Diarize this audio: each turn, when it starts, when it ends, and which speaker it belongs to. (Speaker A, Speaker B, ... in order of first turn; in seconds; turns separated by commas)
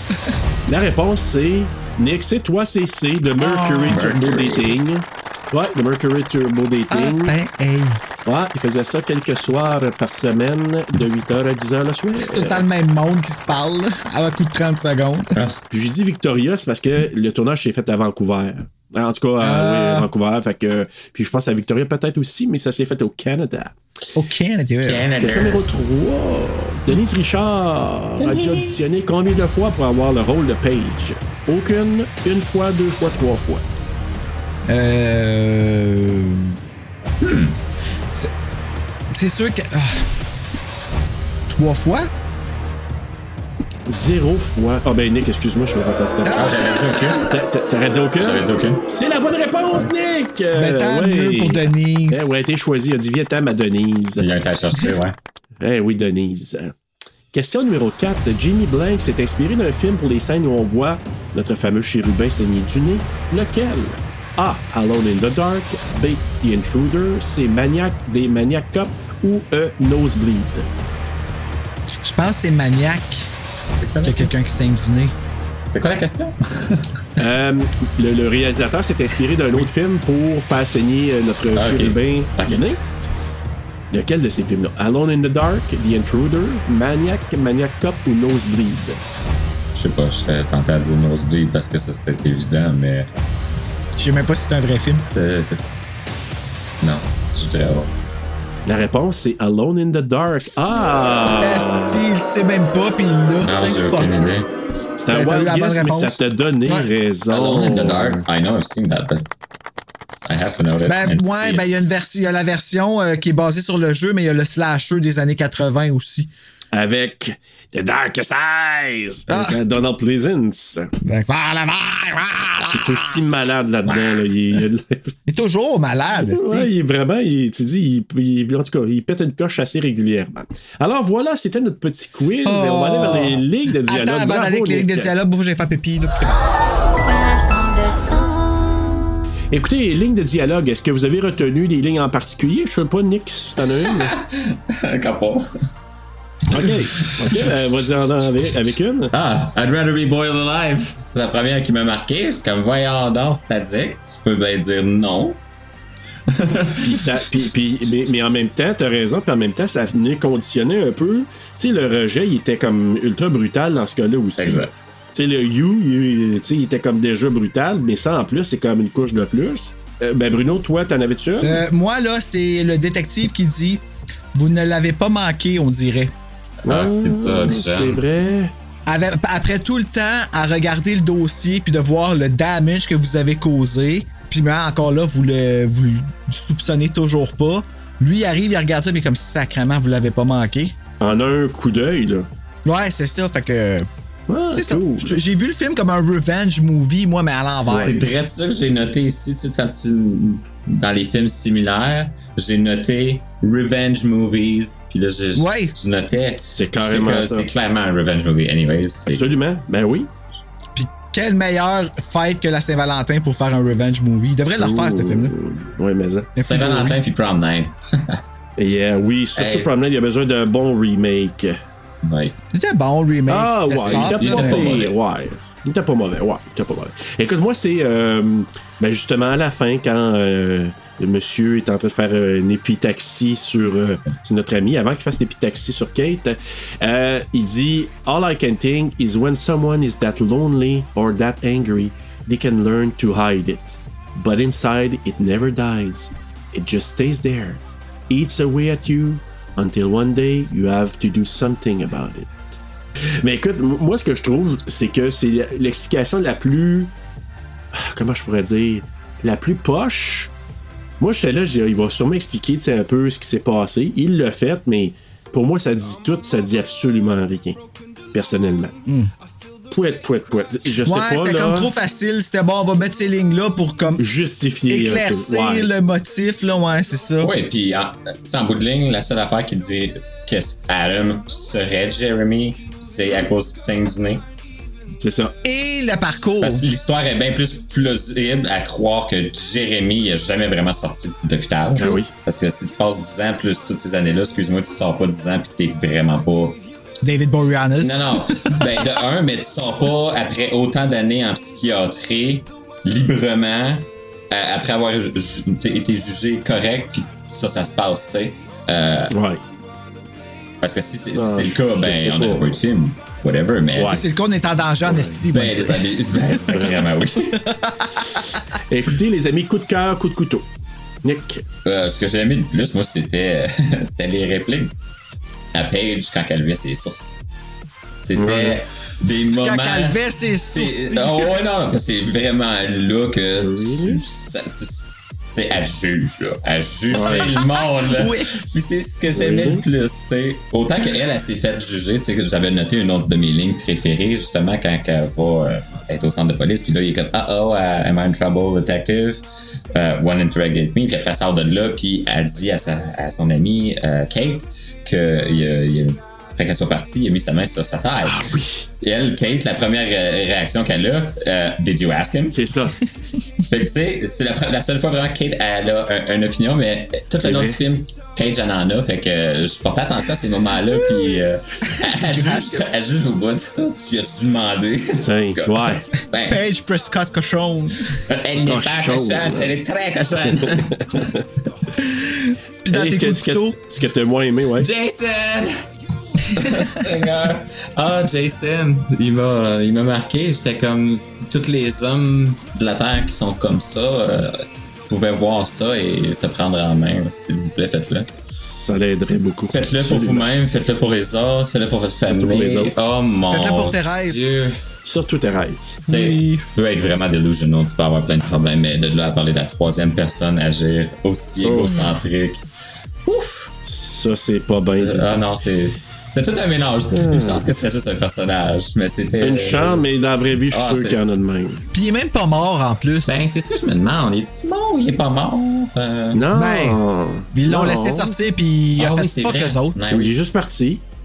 Speaker A: 0.7-7.3, Speaker B: 3.4-4.0, Speaker C: 3.9-4.8, Speaker B: 6.9-8.0, Speaker A: 8.2-12.6, Speaker B: 12.2-15.3, Speaker A: 15.7-23.7, Speaker B: 19.4-20.1, Speaker B: 24.1-25.1, Speaker C: 24.8-25.6, Speaker A: 25.2-33.6, Speaker B: 28.3-28.6, Speaker B: 34.7-36.6, Speaker C: 37.2-37.6, Speaker B: 39.1-40.1, Speaker B: 41.5-42.1, Speaker A: 43.9-46.5, Speaker B: 46.2-47.2, Speaker C: 46.3-47.3, Speaker A: 47.3-54.3, Speaker C: 48.2-48.8, Speaker B: 50.5-52.3, Speaker C: 54.2-55.2, Speaker A: 55.6-56.7, Speaker A: 57.3-70.7, Speaker B: 72.0-73.3, Speaker C: 73.8-74.5, Speaker B: 74.0-75.1, Speaker C: 75.7-77.0, Speaker A: 77.2-82.8, Speaker C: 81.5-82.7, Speaker A: 83.9-89.0, Speaker C: 89.7-93.1, Speaker B: 94.0-95.1, Speaker C: 95.0-95.8, Speaker C: 96.8-97.9, Speaker A: 98.7-102.0, Speaker B: 101.4-104.1, Speaker C: 103.4-104.5, Speaker A: 105.0-108.2, Speaker B: 105.1-106.9, Speaker C: 107.3-109.3, Speaker C: 110.1-111.7, Speaker B: 110.8-116.3, Speaker A: 116.7-120.9, Speaker B: 119.3-119.6, Speaker B: 121.0-123.2, Speaker A: 122.7-125.1, Speaker B: 125.3-126.7, Speaker A: 126.2-135.1, Speaker B: 132.4-136.3, Speaker A: 139.5-144.1, Speaker C: 143.9-145.5, Speaker A: 146.5-149.1, Speaker C: 146.5-147.5, Speaker C: 149.1-155.4, Speaker C: 156.3-157.1, Speaker A: 156.8-171.6, Speaker C: 164.3-164.7, Speaker B: 171.4-173.8, Speaker B: 174.3-176.1, Speaker C: 176.6-178.0, Speaker A: 176.7-178.5, Speaker B: 178.9-190.7, Speaker A: 191.0-192.3, Speaker B: 192.7-193.9, Speaker A: 194.3-195.2, Speaker B: 194.5-197.9, Speaker A: 197.7-197.9, Speaker C: 197.7-209.4, Speaker B: 205.3-205.7, Speaker A: 206.5-207.5, Speaker A: 209.1-210.1, Speaker B: 210.8-215.3, Speaker A: 214.6-216.3, Speaker B: 216.4-217.0, Speaker C: 216.4-218.2, Speaker A: 218.6-221.6, Speaker C: 219.3-219.7, Speaker C: 222.0-222.3, Speaker B: 222.5-224.7, Speaker A: 223.3-252.4, Speaker C: 223.8-224.9, Speaker A: 253.2-256.9, Speaker A: 257.7-260.3, Speaker A: 261.0-267.6, Speaker A: 268.1-268.8, Speaker A: 269.7-271.7, Speaker B: 270.8-274.0, Speaker A: 274.0-275.7, Speaker B: 274.7-277.3, Speaker C: 277.2-284.2, Speaker A: 285.0-285.3, Speaker B: 285.4-286.6, Speaker C: 286.4-296.6, Speaker A: 291.7-292.1, Speaker B: 297.0-298.7, Speaker C: 297.8-309.1, Speaker A: 309.1-309.4, Speaker C: 310.6-314.0, Speaker A: 311.1-312.5, Speaker A: 313.8-314.0, Speaker B: 313.9-315.8, Speaker A: 314.8-315.2, Speaker C: 315.3-317.4, Speaker A: 316.4-316.9, Speaker B: 317.5-318.0, Speaker A: 318.7-320.4, Speaker A: 321.0-321.4, Speaker C: 321.6-324.7, Speaker C: 325.5-327.2, Speaker C: 327.9-362.4, Speaker A: 328.1-328.6, Speaker B: 329.4-331.4, Speaker A: 333.4-334.0, Speaker A: 336.9-337.3, Speaker B: 337.8-338.3, Speaker A: 339.1-339.6, Speaker A: 358.0-358.7, Speaker A: 362.3-362.8, Speaker C: 363.5-376.4, Speaker A: 367.2-367.6, Speaker B: 371.9-372.6, Speaker A: 375.0-375.9, Speaker B: 376.3-377.9, Speaker C: 378.1-381.1, Speaker A: 378.4-379.5, Speaker A: 380.4-381.2, Speaker B: 381.8-383.6, Speaker A: 382.7-384.7, Speaker C: 384.6-385.6, Speaker C: 386.2-398.1, Speaker A: 398.6-400.3, Speaker C: 399.5-404.6, Speaker A: 402.0-402.7, Speaker B: 403.3-404.2, Speaker A: 404.8-405.8, Speaker B: 405.9-406.5, Speaker C: 405.9-412.4, Speaker A: 411.4-411.9, Speaker C: 413.0-413.5, Speaker A: 413.6-415.2, Speaker C: 414.8-419.9, Speaker A: 416.9-417.5, Speaker A: 419.2-421.6, Speaker C: 420.5-421.5, Speaker B: 421.7-423.2, Speaker C: 423.0-426.2, Speaker A: 426.1-428.1, Speaker B: 426.3-426.8, Speaker B: 427.3-429.8, Speaker C: 428.8-430.1, Speaker A: 429.9-430.8